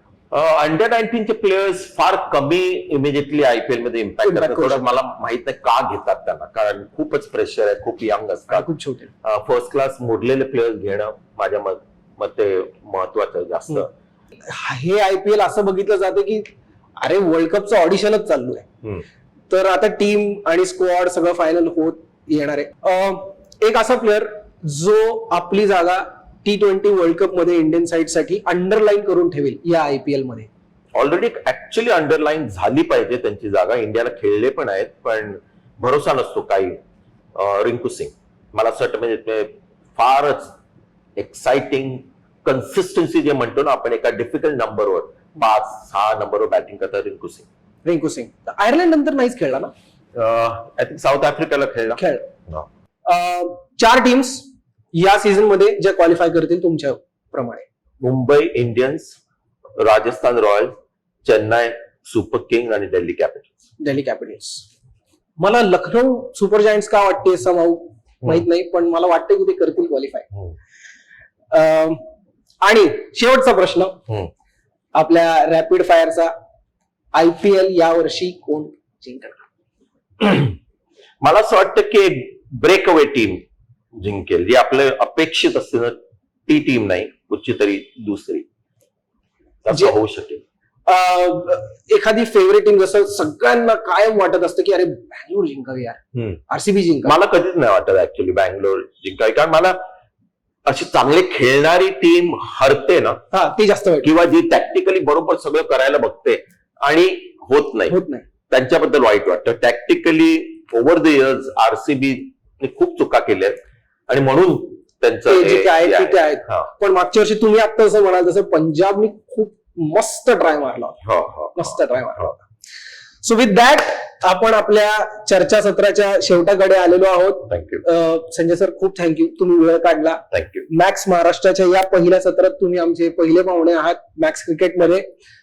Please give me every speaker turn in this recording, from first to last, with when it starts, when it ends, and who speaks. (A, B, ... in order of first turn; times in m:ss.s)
0:00.3-0:08.7 A
0:04.2-0:04.9 B
0:08.5-0:09.1 B
0:09.2-0:13.9 A
0:14.4-0:16.5 B
0:17.0-0:18.7 B
0:19.5-0:30.5 B
0:31.0-0:36.8 A
0:37.4-0:40.5 A
0:41.2-0:47.5 A
0:47.8-0:49.7 B
0:50.1-0:52.7 A
0:52.0-0:52.3 B
0:53.1-0:57.7 B
0:58.0-0:59.2 A
0:59.8-1:03.5 A
1:03.8-1:04.7 B
1:05.4-1:10.3 B
1:11.5-1:12.0 B
1:12.6-1:14.0 B
1:15.0-1:16.3 B
1:17.1-1:19.4 B
1:20.2-1:20.6 A
1:21.2-1:23.4 A
1:24.0-1:26.0 A
1:26.5-1:28.4 A
1:29.6-1:30.4 A
1:30.9-1:37.1 B
1:37.0-1:39.8 A
1:40.6-1:43.2 A
1:43.3-1:44.1 B
1:44.0-1:48.0 A
1:47.9-1:48.2 B
1:48.5-1:53.6 A
1:54.1-1:56.7 A
1:55.3-2:01.0 B
2:01.0-2:02.3 A
2:01.6-2:02.4 B
2:03.2-2:15.1 B
2:07.5-2:07.8 A
2:10.3-2:10.6 A